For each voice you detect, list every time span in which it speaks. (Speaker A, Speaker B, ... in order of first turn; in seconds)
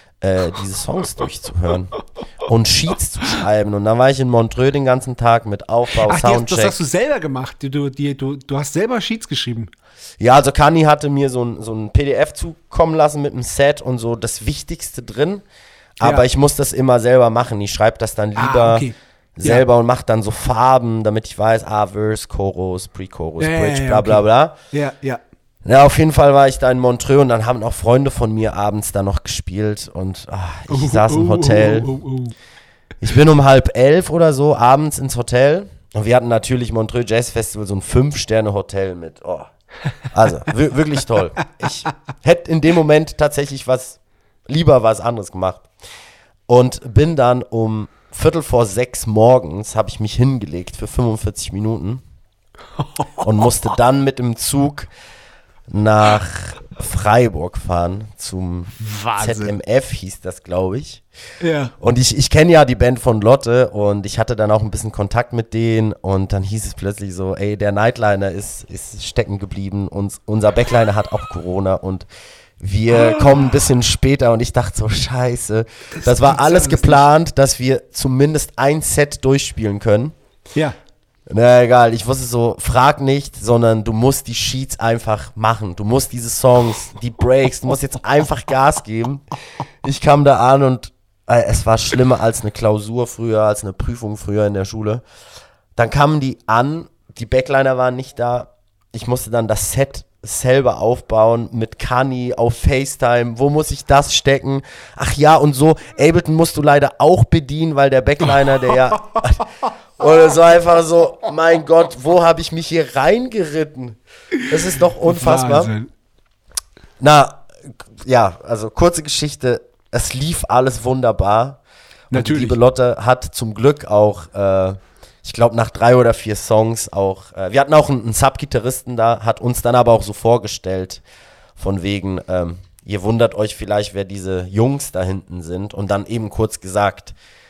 Speaker A: 0.2-6.8, 10.2-15.4, 16.0-24.6, 25.6-31.9, 33.0-39.5, 40.0-45.7, 46.5-52.0, 53.2-54.9, 55.7-61.0, 61.8-72.1, 72.6-80.2, 81.3-89.2, 89.8-95.0, 95.8-115.7, 117.0-131.0, 131.6-137.1
Speaker B: 6.0-9.7, 18.4-19.6, 23.4-25.2, 30.7-32.3, 52.8-53.4, 58.8-59.5, 61.4-61.7, 72.9-73.6, 75.9-77.0, 108.4-108.8, 115.0-115.9, 122.1-122.6